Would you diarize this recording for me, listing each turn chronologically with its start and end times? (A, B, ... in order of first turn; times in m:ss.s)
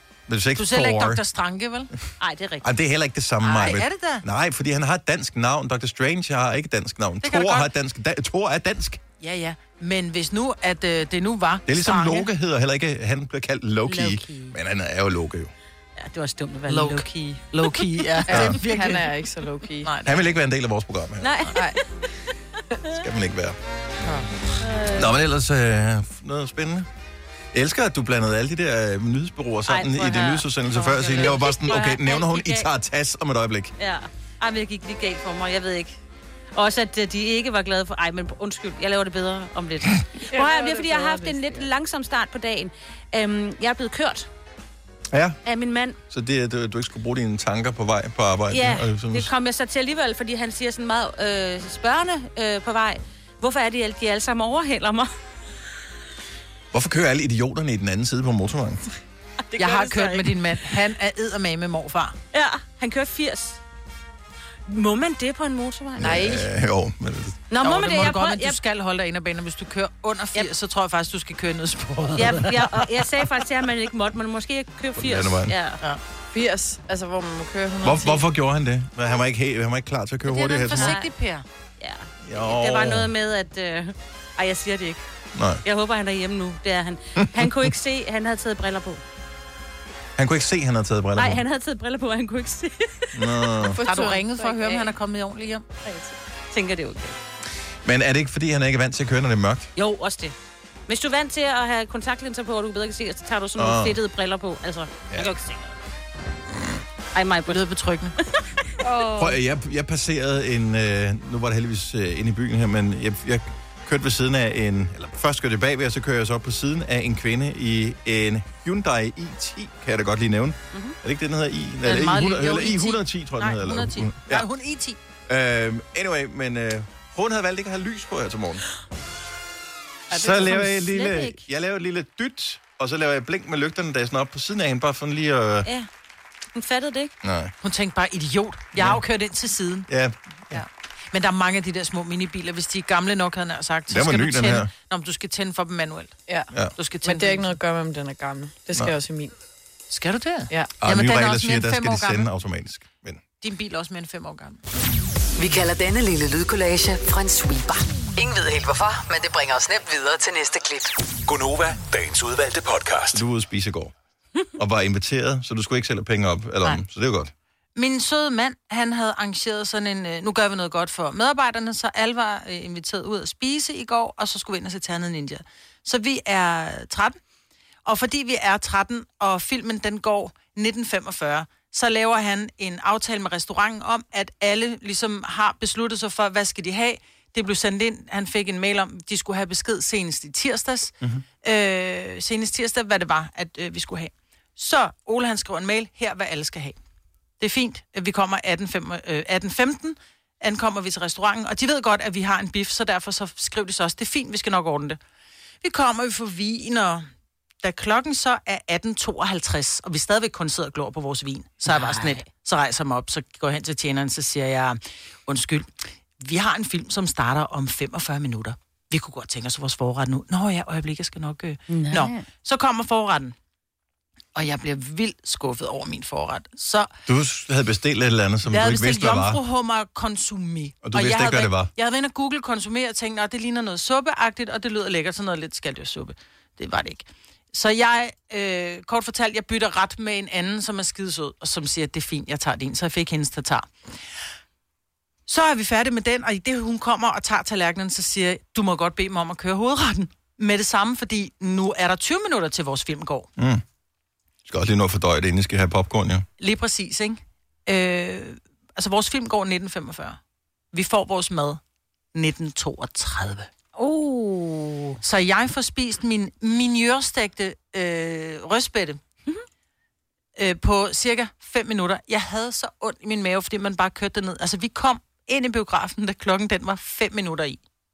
0:00.3-0:01.2 A
0:00.6-0:01.9 B
0:02.2-0:02.7 C
0:02.6-0:09.0 A
0:03.4-0:04.2 B
0:07.2-0:07.7 B
0:09.2-0:12.3 B
0:11.7-0:15.5 A
0:13.9-0:14.6 C
0:16.0-0:17.3 C
0:16.7-0:19.2 B
0:18.3-0:18.6 A
0:18.3-0:19.9 D
0:19.8-0:20.4 B
0:20.0-0:21.5 A
0:21.2-0:21.8 C
0:21.5-0:21.8 D
0:22.9-0:23.6 A
0:24.6-0:25.1 C
0:24.9-0:26.9 A
0:27.5-0:33.8 A
0:29.7-0:32.7 C
0:33.8-0:35.9 C
0:36.5-0:44.3 C
0:40.3-0:41.7 D
0:45.1-0:45.4 A
0:45.4-0:46.0 C
0:46.1-0:49.3 A
0:48.5-0:55.1 C
0:56.7-0:58.8 A
0:59.5-1:00.3 C
0:59.6-1:02.2 B
1:02.3-1:03.6 C
1:04.7-1:06.3 C
1:06.0-1:07.4 A
1:06.0-1:06.4 D
1:07.5-1:08.6 C
1:07.6-1:12.9 B
1:12.2-1:15.8 C
1:15.0-1:15.6 A
1:16.3-1:18.2 D
1:17.8-1:21.0 A
1:20.2-1:21.4 B
1:20.7-1:21.1 C
1:21.8-1:25.0 C
1:22.2-1:23.1 A
1:25.4-1:25.6 A
1:25.6-1:29.0 C
1:27.2-1:27.6 A
1:30.2-1:31.4 A
1:31.2-1:33.1 C
1:33.1-1:33.8 A
1:33.6-1:34.9 D
1:33.8-1:35.7 B
1:35.8-1:36.2 D
1:36.5-1:37.2 C
1:37.8-1:39.7 A
1:39.8-1:40.3 C
1:40.9-1:45.8 C
1:43.6-1:44.0 A
1:47.1-1:47.6 C
1:47.5-1:48.2 B
1:48.8-1:49.4 D
1:49.2-2:04.5 A
2:01.8-2:05.0 B
2:05.3-2:08.6 A
2:10.1-2:15.7 A
2:10.1-2:10.6 D
2:10.2-2:11.4 C
2:16.5-2:17.1 C
2:17.2-2:17.5 A
2:17.6-2:19.9 B
2:18.8-2:19.0 A
2:19.9-2:20.6 A
2:20.5-2:26.2 B
2:23.9-2:24.7 A
2:26.8-2:27.6 B
2:27.0-2:29.3 D
2:29.9-2:32.3 B
2:30.8-2:33.2 A
2:33.4-2:34.6 B
2:35.4-2:40.9 E
2:41.2-2:43.2 F
2:43.1-2:43.9 A
2:44.6-2:47.3 A
2:47.8-2:57.2 B
2:57.8-3:16.8 B
3:17.4-3:25.0 B
3:25.6-3:27.1 B
3:27.6-3:43.3 B
3:31.7-3:32.2 C
3:41.7-3:42.2 C
3:44.3-3:46.9 B
3:47.1-3:49.4 A
3:48.5-4:03.7 B
3:50.8-3:51.7 A
4:05.3-4:13.3 B
4:13.4-4:13.6 A
4:14.4-4:16.3 A
4:16.4-4:20.2 B
4:20.7-4:21.6 B
4:22.1-4:23.5 B
4:23.8-4:25.0 C
4:25.0-4:29.0 B
4:30.4-4:37.6 B